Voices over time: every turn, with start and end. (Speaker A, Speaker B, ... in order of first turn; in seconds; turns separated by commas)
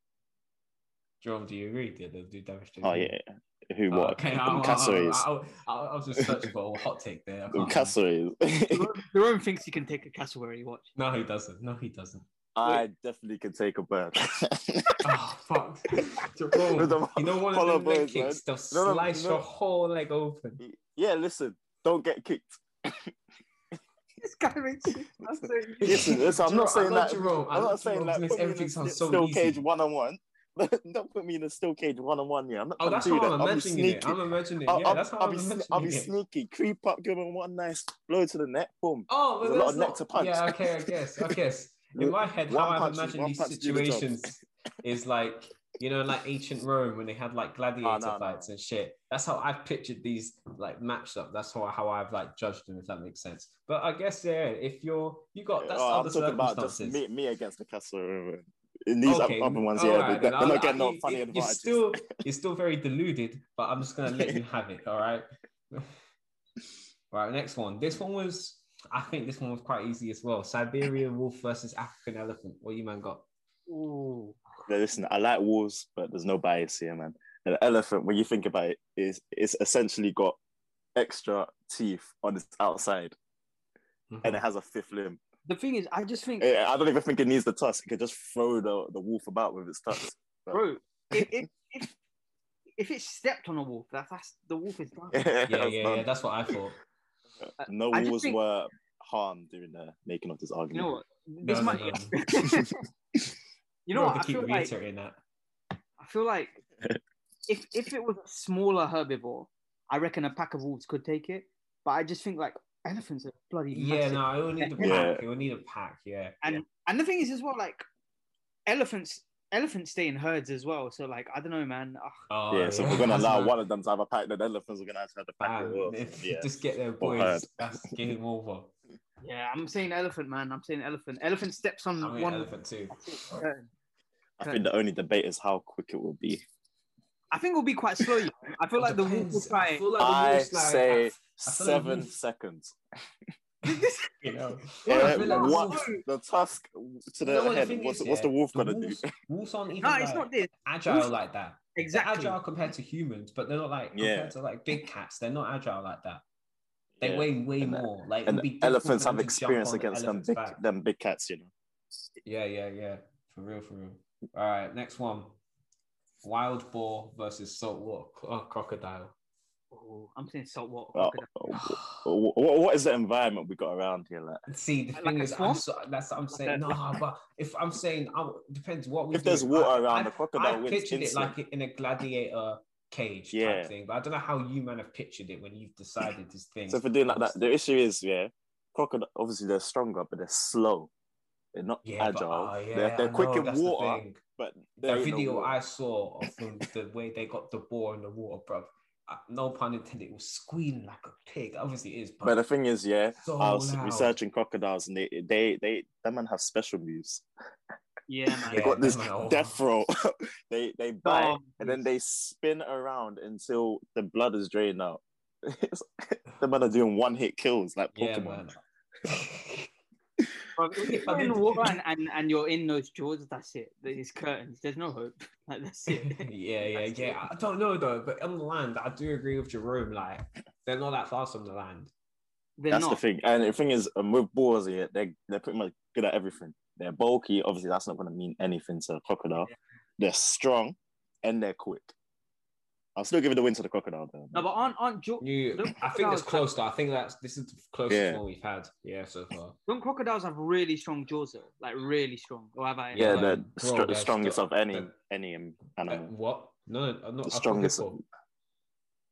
Speaker A: 1.2-3.1, Speaker B: 2.8-5.2, Speaker A: 3.9-8.0, Speaker B: 7.5-8.9, Speaker C: 8.7-10.9, Speaker A: 10.9-12.2, Speaker B: 12.5-15.0, Speaker A: 15.0-20.6, Speaker B: 16.6-19.4, Speaker B: 20.6-23.1, Speaker C: 24.2-26.2, Speaker B: 25.8-41.4, Speaker A: 25.9-29.6, Speaker A: 32.8-36.1, Speaker A: 39.1-57.0, Speaker B: 42.0-44.2, Speaker B: 47.8-48.5, Speaker B: 55.5-62.0, Speaker A: 59.0-65.9, Speaker B: 64.1-64.4, Speaker A: 67.1-73.2, Speaker C: 73.7-74.5, Speaker B: 74.7-80.4, Speaker B: 80.9-83.1, Speaker A: 84.1-84.4, Speaker B: 84.2-85.2, Speaker C: 85.4-86.5, Speaker B: 86.4-91.4, Speaker C: 90.5-91.9, Speaker C: 92.8-95.2, Speaker B: 95.1-96.6, Speaker A: 95.5-96.8, Speaker C: 97.6-98.4, Speaker B: 97.7-101.0, Speaker C: 100.7-102.7, Speaker A: 101.4-102.1, Speaker C: 103.9-104.7, Speaker A: 103.9-105.2, Speaker C: 106.0-106.6, Speaker C: 107.5-115.0, Speaker A: 113.7-116.4, Speaker B: 114.8-115.2, Speaker C: 116.4-117.8, Speaker C: 118.7-122.2, Speaker A: 122.3-123.6, Speaker B: 122.5-126.5, Speaker A: 125.4-128.7, Speaker B: 127.0-127.8, Speaker C: 129.2-133.7, Speaker A: 132.0-133.0, Speaker B: 134.4-136.4, Speaker C: 137.3-139.8, Speaker A: 138.8-142.1, Speaker B: 140.0-142.8, Speaker C: 143.6-144.3, Speaker A: 143.7-145.9, Speaker C: 144.8-146.0, Speaker B: 144.8-149.1, Speaker A: 147.2-156.2, Speaker C: 149.8-151.1, Speaker C: 151.8-152.4, Speaker B: 153.9-154.3, Speaker B: 157.0-161.5, Speaker A: 157.0-160.6, Speaker A: 162.2-165.3, Speaker A: 166.2-169.1, Speaker C: 169.7-171.3, Speaker B: 170.9-174.4, Speaker A: 171.5-172.1, Speaker A: 174.5-187.4, Speaker C: 175.0-175.7, Speaker C: 176.3-176.7, Speaker B: 179.1-181.3, Speaker B: 183.3-183.7, Speaker B: 186.7-190.9, Speaker B: 191.5-195.5, Speaker A: 191.8-194.2, Speaker A: 194.8-202.4, Speaker B: 202.2-207.2, Speaker A: 203.2-204.1, Speaker C: 208.1-208.7, Speaker B: 208.4-218.5, Speaker A: 208.5-209.6, Speaker C: 211.0-211.8, Speaker A: 217.9-219.7, Speaker C: 220.6-227.2, Speaker A: 220.8-221.8, Speaker A: 225.9-231.9, Speaker C: 232.6-233.0, Speaker B: 232.7-241.9, Speaker B: 242.9-244.4, Speaker C: 244.3-246.5, Speaker A: 245.2-249.6, Speaker B: 247.9-248.2, Speaker C: 249.7-253.3, Speaker A: 252.9-254.9, Speaker B: 252.9-256.1, Speaker A: 255.8-258.0, Speaker B: 257.2-258.0